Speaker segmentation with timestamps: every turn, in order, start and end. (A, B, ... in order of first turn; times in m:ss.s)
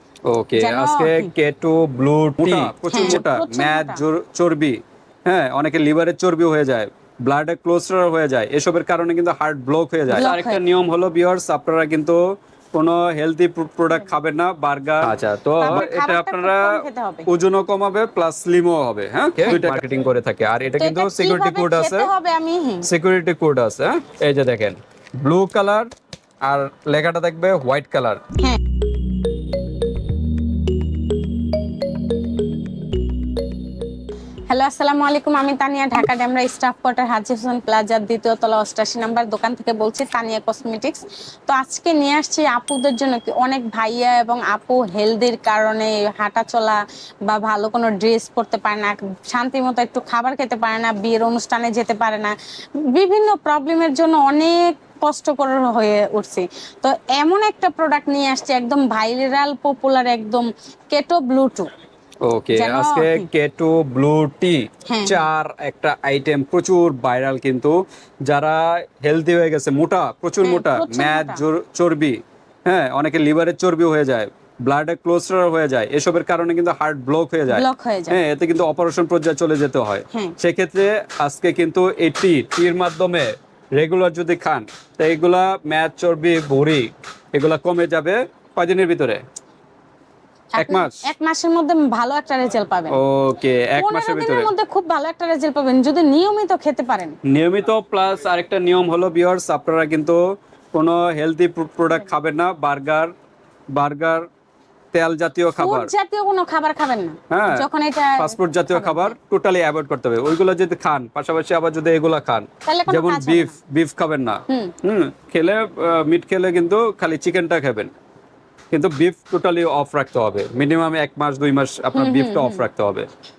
0:00.2-0:12.2 A
0:00.6-0:01.3 B
0:02.9-0:04.0 B
0:10.1-0:10.6 B
0:12.7-0:22.1 A
0:15.6-0:17.2 B
0:20.8-0:22.9 B
0:22.8-0:25.9 A
0:26.4-0:28.2 A
0:34.5-0:52.3 B
0:52.9-1:01.7 B
1:02.2-1:29.2 A
1:02.6-1:03.3 B
1:04.9-1:05.2 B
1:10.4-1:11.4 B
1:17.5-1:18.2 B
1:30.6-1:33.0 B
1:30.6-1:31.0 A
1:32.9-1:34.5 A
1:33.8-1:37.2 B
1:37.2-1:40.2 A
1:40.7-1:43.1 A
1:43.7-1:44.3 A
1:44.9-1:45.9 A
1:45.6-1:49.2 B
1:47.3-1:47.6 A
1:48.2-1:57.9 A
1:52.6-1:53.6 B
1:58.7-2:03.1 A
2:01.9-2:02.6 B